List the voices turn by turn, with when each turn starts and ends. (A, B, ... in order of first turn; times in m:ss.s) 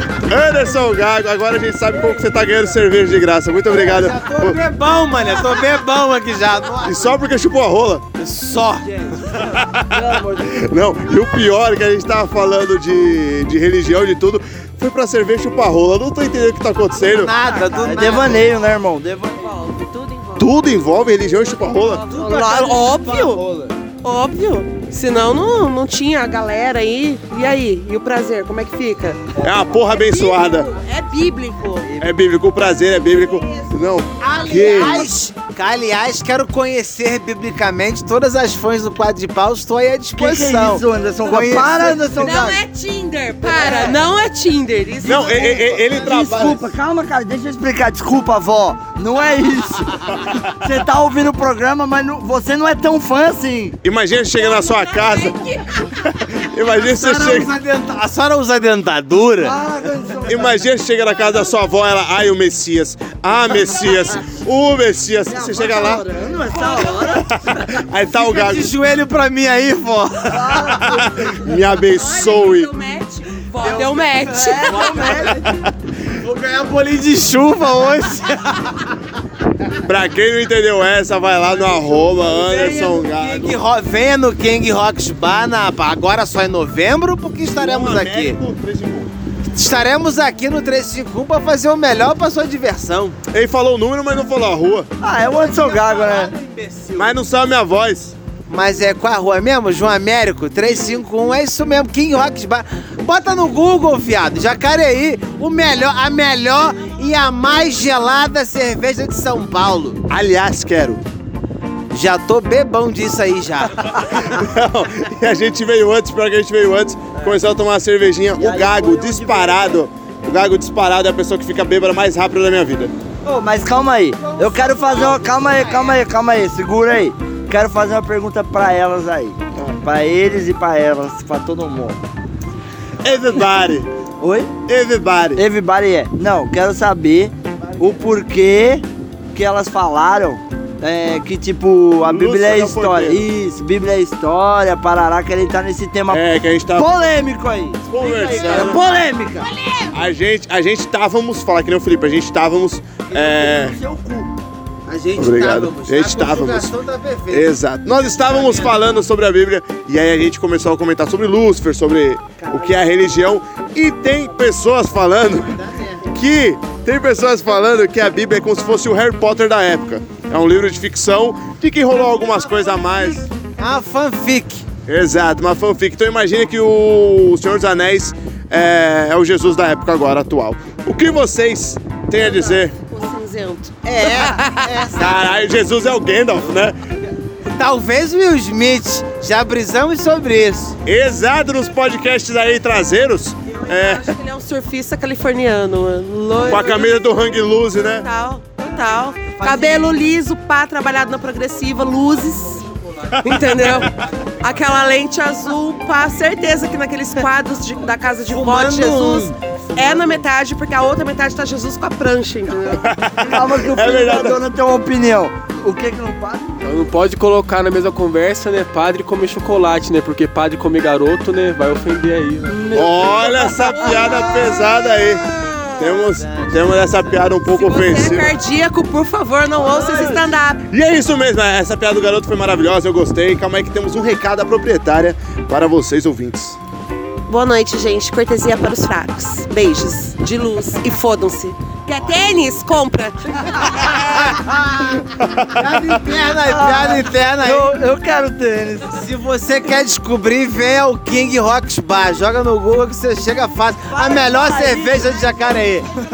0:00.1-0:04.6 A
0:03.7-0:07.2 B
0:06.8-0:08.0 A
0:08.2-0:08.9 B
0:08.8-0:10.6 C
0:09.4-0:17.3 A
0:17.0-0:18.5 B
0:17.6-0:19.5 C
0:19.4-0:20.5 D
0:20.4-0:22.0 A
0:21.7-0:23.4 D
0:22.1-0:23.7 B
0:24.0-0:32.0 D
0:29.4-0:30.7 A
0:32.0-0:35.1 A
0:34.2-0:42.1 B
0:34.6-0:35.1 D
0:40.2-0:42.6 C
0:42.2-0:45.6 D
0:43.5-0:43.9 B
0:45.0-0:46.6 A
0:45.0-0:53.8 C
0:53.8-0:57.5 A
0:54.4-0:55.9 D
0:56.8-0:59.6 B
0:59.4-1:00.5 C
1:00.3-1:06.1 A
1:05.3-1:07.5 C
1:07.7-1:08.7 A
1:08.1-1:11.0 B
1:10.3-1:11.1 C
1:11.3-1:12.7 A
1:11.8-1:15.2 D
1:13.6-1:15.5 B
1:14.3-1:15.4 C
1:15.4-1:15.7 A
1:16.2-1:18.8 B
1:19.8-1:23.6 A
1:22.2-1:28.4 B
1:27.5-1:29.1 A
1:29.6-1:33.2 B
1:33.3-1:34.9 A
1:35.0-1:36.3 C
1:35.2-1:37.2 B
1:37.0-1:38.2 A
1:38.5-1:50.1 B
1:50.1-1:51.0 A
1:51.9-1:54.0 B
1:54.1-2:02.9 A
1:58.4-1:59.8 C
2:03.2-2:12.0 C
2:04.2-2:06.0 B
2:13.0-2:13.9 A
2:14.2-2:14.5 C
2:14.7-2:15.4 A
2:15.4-2:29.5 C
2:22.0-2:23.3 A
2:26.1-2:27.0 A
2:27.9-2:28.8 A
2:29.9-2:33.8 A
2:33.1-2:34.3 C
2:34.9-2:37.5 B
2:35.2-2:36.7 A
2:37.3-2:53.3 A
2:38.1-2:38.8 B
2:45.4-2:46.0 B
2:52.3-2:54.6 B
2:54.9-3:02.7 A
3:02.1-3:04.8 D
3:03.8-3:05.5 B
3:04.9-3:06.8 A
3:07.5-3:10.8 B
3:10.8-3:14.1 A
3:13.5-3:17.1 D
3:16.4-3:18.1 A
3:18.0-3:22.6 D
3:19.4-3:19.8 C
3:23.2-3:32.8 D
3:23.2-3:23.6 A
3:28.3-3:30.2 B
3:32.8-3:34.4 A
3:33.2-3:36.6 C
3:36.6-3:42.8 E
3:42.5-3:44.0 C
3:42.7-3:45.2 A
3:43.3-3:45.5 D
3:45.8-3:48.3 A
3:45.8-3:47.4 B
3:47.5-3:50.6 D
3:49.6-3:50.3 C
3:50.7-3:56.6 A
3:57.3-4:04.0 D
4:05.5-4:07.7 B
4:06.4-4:09.1 C
4:08.9-4:15.9 B
4:13.9-4:15.2 C